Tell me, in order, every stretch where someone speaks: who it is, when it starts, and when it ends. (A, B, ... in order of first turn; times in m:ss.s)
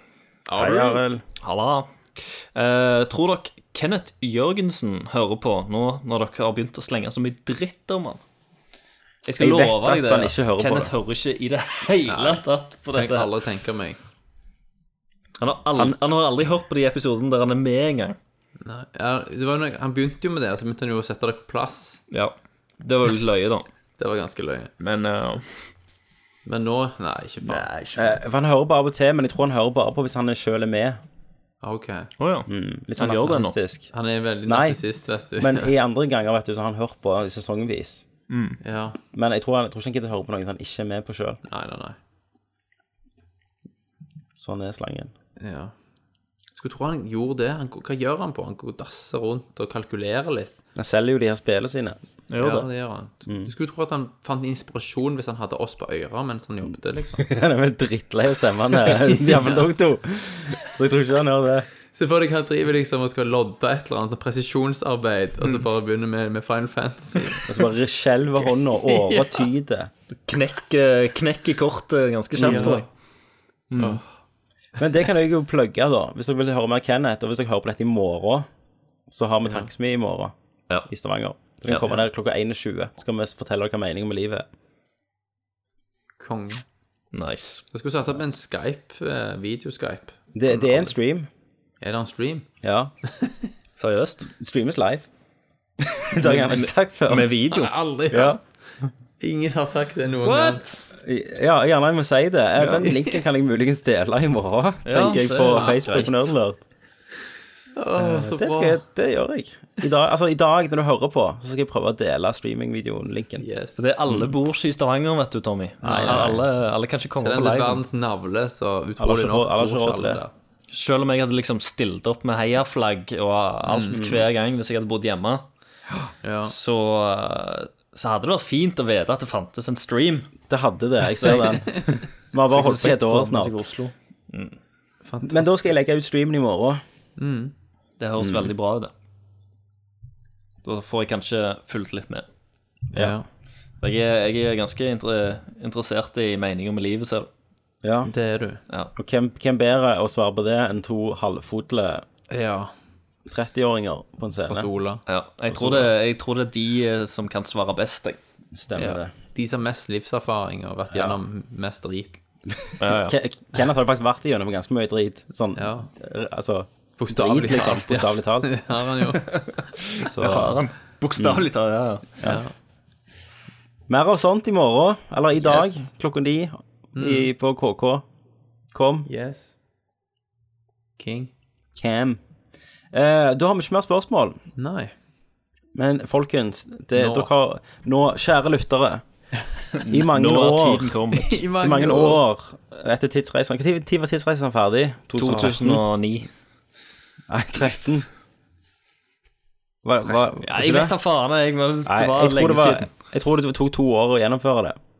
0:00.4-0:01.0 A
0:00.6-0:01.2 B
0:01.4-0:08.2 C
0:09.2-0:13.3 C
0:09.4-0:10.9 B
0:12.1-0:14.0 A
0:15.4-0:18.2 C
0:18.6-0:22.0 A
0:22.1-0:23.7 C
0:24.0-0:24.7 A
0:24.8-0:25.4 C
0:26.4-0:28.1 A
0:27.9-0:31.0 B
0:31.6-0:32.1 A
0:32.2-0:33.6 C
0:32.5-0:33.9 B
0:33.9-0:35.7 A
0:34.4-0:34.8 B
0:35.4-0:38.0 B
0:38.3-0:38.6 C
0:38.6-0:39.0 A
0:39.1-0:41.4 B
0:41.4-0:42.0 A
0:44.4-0:45.1 B
0:45.4-0:45.7 A
0:46.5-0:50.5 A
0:50.8-0:52.0 B
0:52.3-0:52.7 C
0:52.4-0:57.3 A
0:57.2-1:01.7 B
0:59.0-0:59.6 A
1:01.9-1:07.5 A
1:07.5-1:09.9 B
1:08.4-1:09.5 A
1:10.3-1:12.8 C
1:12.4-1:12.8 B
1:12.4-1:12.8 A
1:13.7-1:14.0 C
1:13.8-1:14.0 A
1:14.8-1:18.5 B
1:19.1-1:20.3 B
1:20.9-1:24.4 B
1:26.2-1:26.6 A
1:27.1-1:27.6 C
1:27.7-1:30.9 A
1:30.3-1:31.3 B
1:31.8-1:32.5 A
1:32.6-1:32.9 B
1:33.8-1:34.3 C
1:34.4-1:35.1 B
1:35.8-1:37.3 B
1:36.2-1:37.7 C
1:37.5-1:38.4 A
1:38.1-1:38.4 B
1:39.2-1:40.6 A
1:40.2-1:40.8 C
1:41.0-1:46.6 B
1:42.6-1:43.2 A
1:44.8-1:46.3 C
1:45.2-1:46.1 A
1:47.8-1:48.8 A
1:48.0-1:53.4 B
1:53.4-1:53.8 A
1:53.8-1:57.8 C
1:55.8-1:56.4 A
1:55.8-1:56.4 B
1:57.2-2:00.3 A
1:59.0-2:00.2 B
2:00.7-2:05.4 C
2:03.7-2:04.0 A
2:03.9-2:04.3 B
2:06.2-2:06.5 A
2:06.4-2:10.3 C
2:10.5-2:13.6 B
2:11.4-2:12.0 A
2:12.5-2:14.6 C
2:15.0-2:15.8 A
2:15.2-2:16.8 B
2:17.2-2:17.5 A
2:18.0-2:18.9 C
2:18.2-2:18.5 B
2:20.6-2:22.2 C
2:22.9-2:23.2 A
2:23.8-2:27.3 C
2:27.8-2:28.1 B
2:28.0-2:28.6 A
2:29.0-2:32.0 B
2:32.3-2:32.7 A
2:33.2-2:34.7 B
2:34.5-2:35.0 A
2:35.1-2:38.2 C
2:35.5-2:35.8 B
2:38.5-2:39.1 B
2:38.8-2:42.2 A
2:40.9-2:41.2 B
2:42.8-2:43.2 C
2:42.8-2:48.6 B
2:45.5-2:45.9 A
2:47.0-2:49.7 A
2:49.3-2:52.2 C
2:50.0-2:50.6 B
2:51.2-2:51.5 B
2:52.2-2:52.5 A
2:53.9-2:58.0 B
2:55.4-2:55.9 A
2:56.9-2:57.3 A
2:58.7-2:59.1 B
2:59.1-2:59.5 A
3:01.0-3:01.3 A
3:01.8-3:02.2 B
3:02.9-3:04.4 B
3:04.6-3:04.9 A
3:05.7-3:09.0 B
3:07.0-3:07.3 A
3:09.8-3:11.4 C
3:09.9-3:11.0 B
3:11.1-3:12.2 A
3:11.6-3:15.8 B
3:15.2-3:16.3 C
3:15.2-3:15.6 A
3:17.3-3:18.1 B
3:19.8-3:20.9 B
3:20.0-3:22.9 C
3:21.8-3:24.8 B